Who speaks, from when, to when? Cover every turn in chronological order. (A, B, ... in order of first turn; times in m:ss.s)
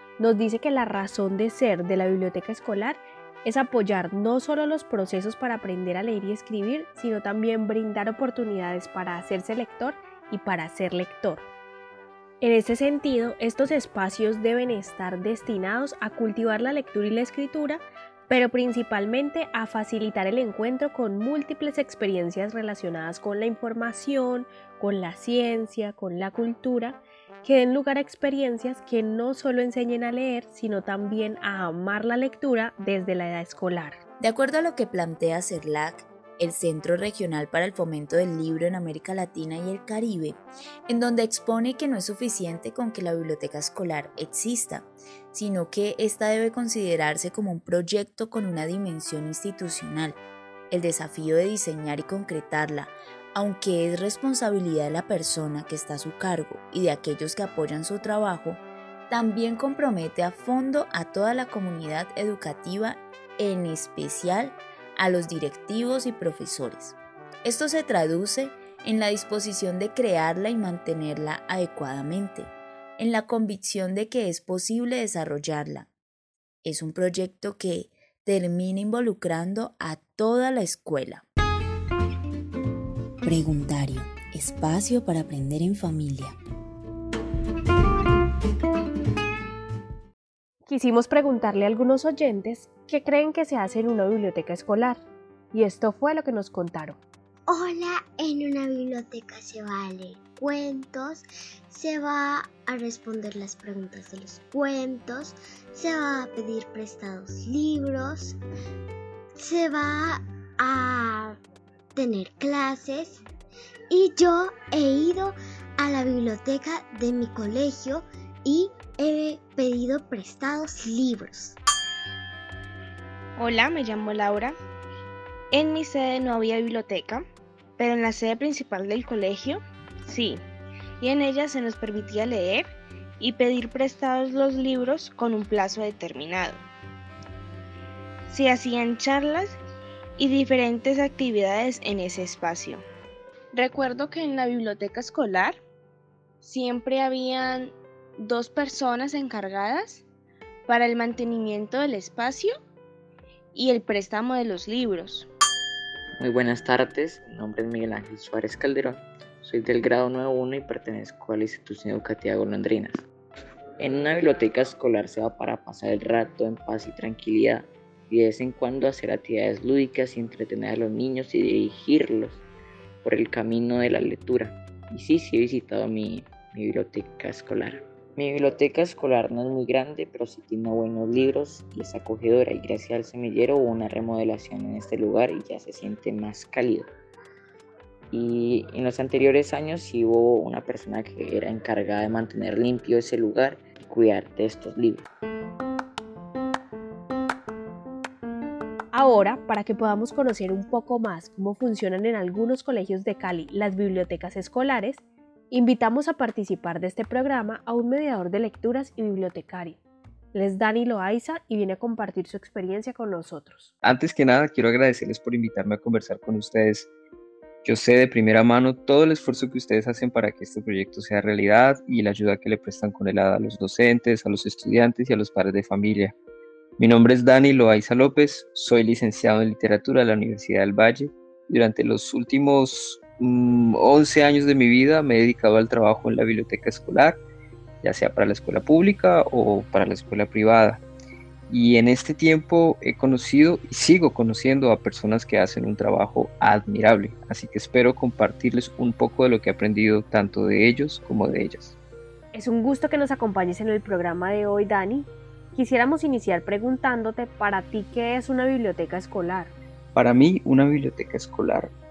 0:00.2-0:11.4 A
0:12.4-0:34.0 A
0:34.2-0:50.2 B
0:50.7-1:15.9 B
1:16.6-1:21.2 B
1:23.2-1:26.4 B
1:30.7-1:35.0 A
1:35.5-1:37.0 A
1:37.5-1:48.4 C
1:49.4-1:51.4 C
1:52.0-1:53.2 C
1:53.9-2:01.6 C
2:03.4-2:04.5 D
2:05.5-2:07.2 D
2:07.8-2:10.4 D
2:11.0-2:16.6 D
2:18.3-2:19.6 D
2:20.2-2:22.8 D
2:23.5-2:25.6 D
2:26.4-2:30.0 D
2:30.7-2:32.5 D
2:33.5-2:35.3 D
2:36.2-2:43.1 E
2:43.8-2:52.4 E
2:53.0-3:06.9 E
3:08.1-3:15.1 E
3:18.9-3:29.8 A
3:30.3-3:33.7 A
3:33.8-3:36.9 F
3:37.6-3:46.2 F
3:46.8-3:57.2 F
3:57.8-4:00.8 F
4:01.5-4:11.8 F
4:12.3-4:19.5 A
4:20.0-4:21.7 F